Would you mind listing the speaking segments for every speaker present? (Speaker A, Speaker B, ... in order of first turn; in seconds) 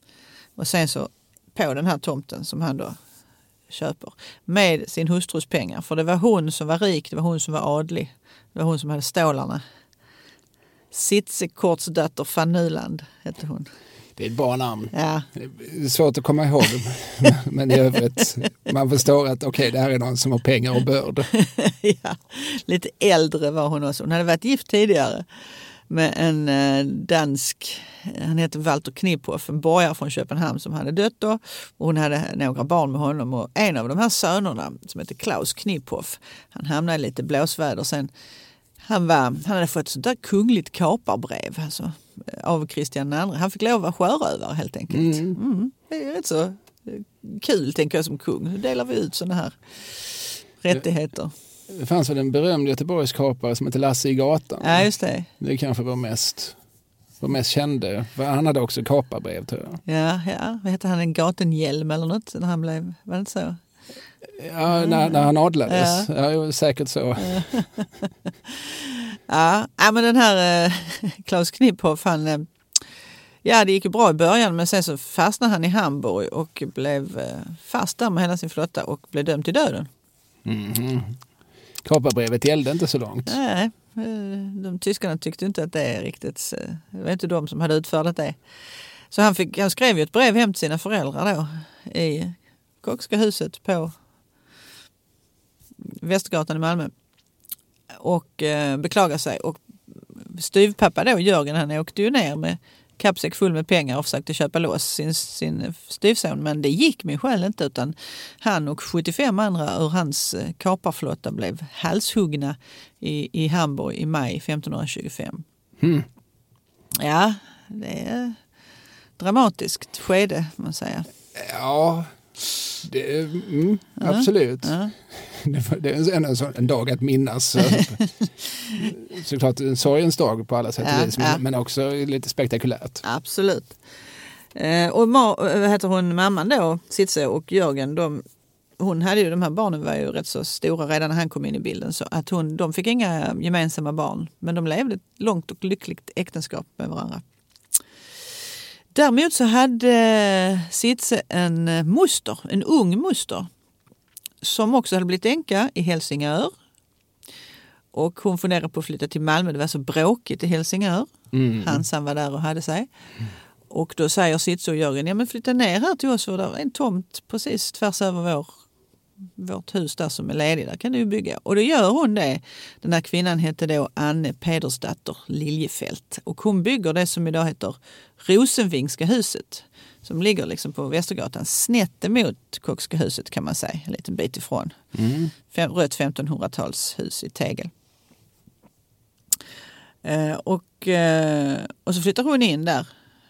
Speaker A: 0.6-3.0, 3.7-9.6, 10.9-13.7, 14.9-15.3, 21.3-25.3, 25.9-38.1, 38.8-51.3, 54.6-55.3, 59.9-63.6, 64.7-66.1, 67.2-67.9, 68.8-72.8, 73.4-79.9, 83.3-88.4, 89.1-93.9, 95.9-96.9, 97.9-99.6, 100.2-115.4, 117.0-118.4, 119.2-121.1, 124.0-124.9, 127.7-128.1, 130.8-131.4, 133.0-133.8, 134.5-138.2, 138.8-147.2, 148.9-153.5, 154.4-156.5, 157.9-162.9, 163.7-168.6, 169.4-184.8, 185.5-187.7, 190.0-192.9
Speaker B: 14.2-21.3, 44.9-45.4, 51.7-56.6, 57.2-59.8, 64.2-67.7, 80.5-81.2, 81.8-83.4, 115.8-116.1, 121.3-122.2, 122.8-128.0, 128.8-133.0, 161.3-161.8, 184.9-185.3